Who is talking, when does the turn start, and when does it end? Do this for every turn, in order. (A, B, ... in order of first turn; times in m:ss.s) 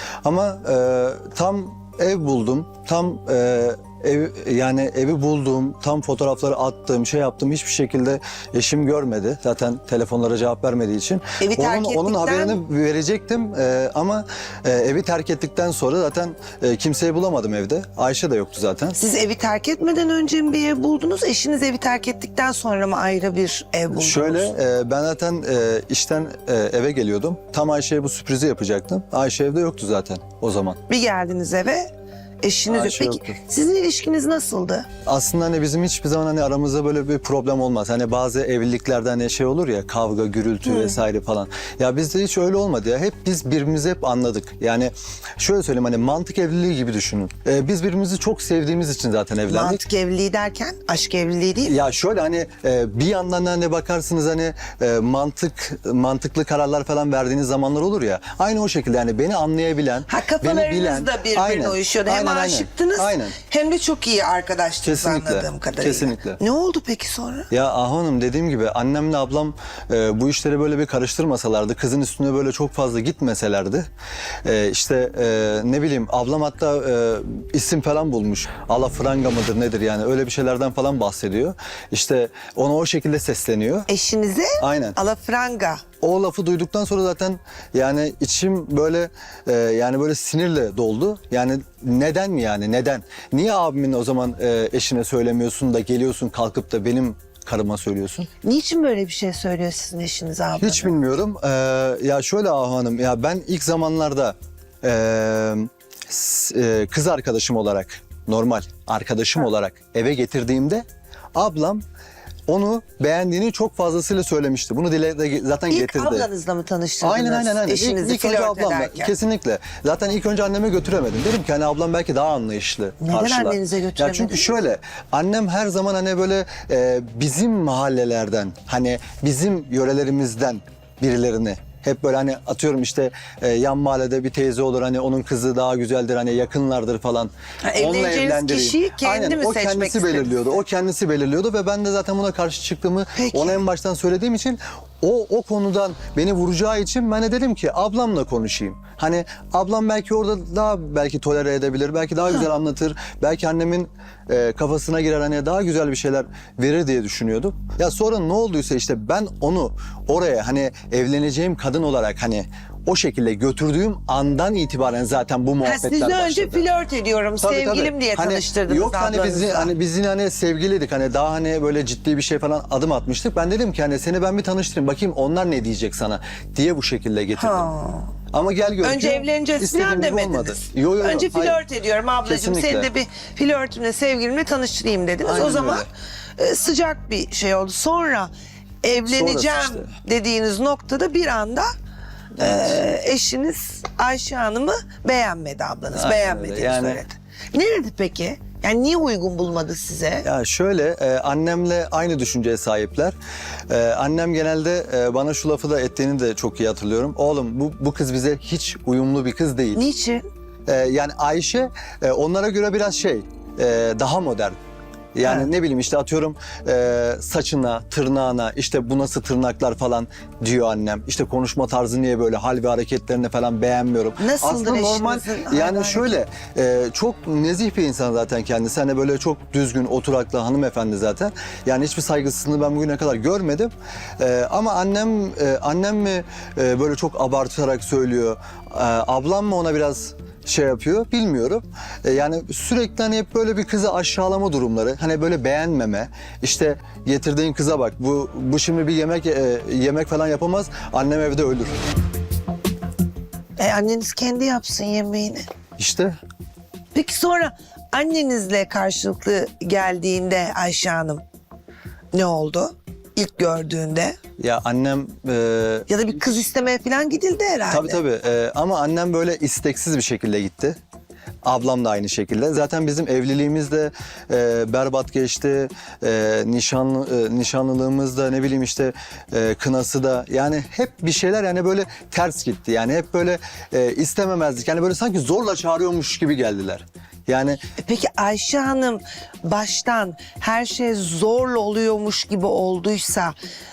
0:00.2-0:19.0 A
0:11.4-0:12.6 B
0:19.0-0:24.5 B
0:23.9-0:30.8 A
0:30.9-0:31.9 B
0:32.4-0:34.9 B
0:32.7-0:33.4 A
0:35.1-0:49.8 A
0:40.6-0:41.0 B
0:49.5-0:51.8 B
0:51.6-1:03.4 A
1:00.1-1:07.5 B
1:04.8-1:06.4 A
1:07.5-1:13.9 A
1:14.4-1:23.9 A
1:23.9-1:25.8 B
1:24.6-1:25.0 A
1:26.0-1:38.3 A
1:38.4-1:41.0 B
1:40.6-1:51.8 A
1:52.5-1:56.3 A
1:55.7-1:59.1 B
1:57.0-2:46.7 A
2:03.0-2:04.5 B
2:17.6-2:20.6 B
2:23.2-2:23.6 B
2:45.6-2:49.7 B
2:47.4-2:57.7 A
2:57.4-2:58.1 B
2:58.3-3:01.6 A
2:58.8-3:08.3 B
3:02.2-3:02.9 A
3:05.2-3:05.9 A
3:08.8-3:11.7 B
3:09.1-3:09.9 A
3:12.4-3:20.3 B
3:12.4-3:12.8 A
3:15.9-3:17.0 A
3:20.2-3:23.2 A
3:23.7-3:29.8 A
3:29.8-3:30.2 B
3:30.7-3:34.6 A
3:35.2-4:11.8 A
3:35.2-3:35.5 B
3:44.2-3:46.2 B
4:13.6-4:15.4 B
4:15.8-4:16.2 A
4:16.9-4:21.2 B
4:22.1-4:24.2 B
4:24.4-4:25.9 A
4:25.9-4:28.0 B
4:27.7-4:30.8 A
4:31.4-4:47.6 A
4:47.8-4:53.3 B